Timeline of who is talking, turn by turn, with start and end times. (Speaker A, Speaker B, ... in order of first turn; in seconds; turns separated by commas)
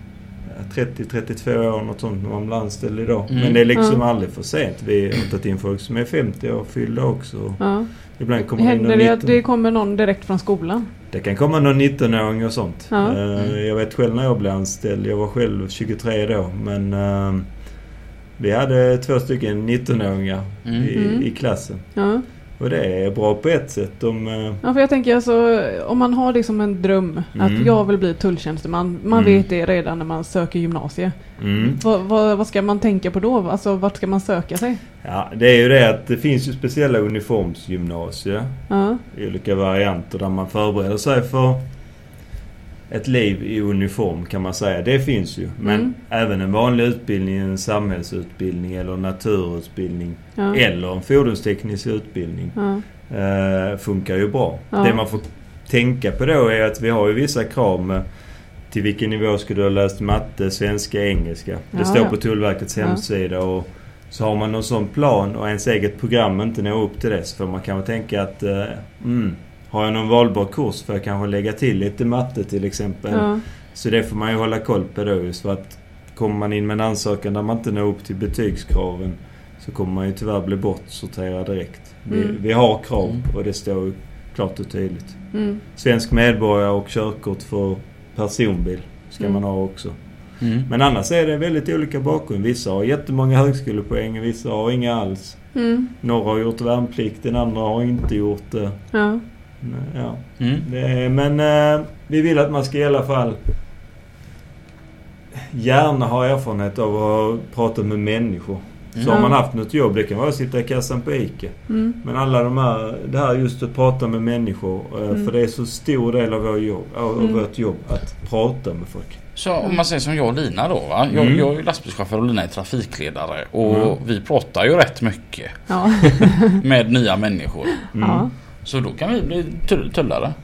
Speaker A: 0.5-9.4, Speaker B: 3.3-3.6, Speaker C: 3.8-4.0, Speaker C: 7.6-7.9, Speaker C: 8.6-10.9, Speaker A: 11.1-17.5, Speaker C: 12.9-13.2, Speaker A: 18.4-21.9, Speaker B: 20.7-20.9, Speaker C: 20.9-21.3, Speaker C: 21.9-22.2, Speaker A: 22.6-24.6, Speaker C: 24.6-34.8, Speaker A: 27.4-27.7, Speaker A: 29.1-29.4, Speaker A: 31.4-31.8, Speaker A: 35.0-41.6, Speaker C: 38.7-39.0, Speaker A: 42.9-58.0, Speaker C: 45.6-45.9, Speaker C: 52.6-52.8, Speaker C: 54.7-55.0, Speaker A: 58.7-90.0, Speaker C: 61.7-62.2, Speaker C: 73.1-73.4, Speaker C: 82.1-82.4, Speaker C: 85.3-85.6, Speaker B: 90.4-90.7, Speaker A: 90.7-99.0, Speaker C: 95.5-95.9, Speaker C: 98.9-99.2, Speaker A: 99.6-103.4, Speaker B: 100.4-100.7, Speaker A: 105.4-119.2, Speaker C: 109.1-109.3, Speaker C: 111.7-112.0, Speaker B: 119.3-127.9, Speaker A: 121.1-121.5, Speaker A: 123.6-124.0, Speaker C: 125.7-126.6, Speaker A: 127.9-128.3, Speaker C: 128.0-128.3, Speaker B: 128.6-130.3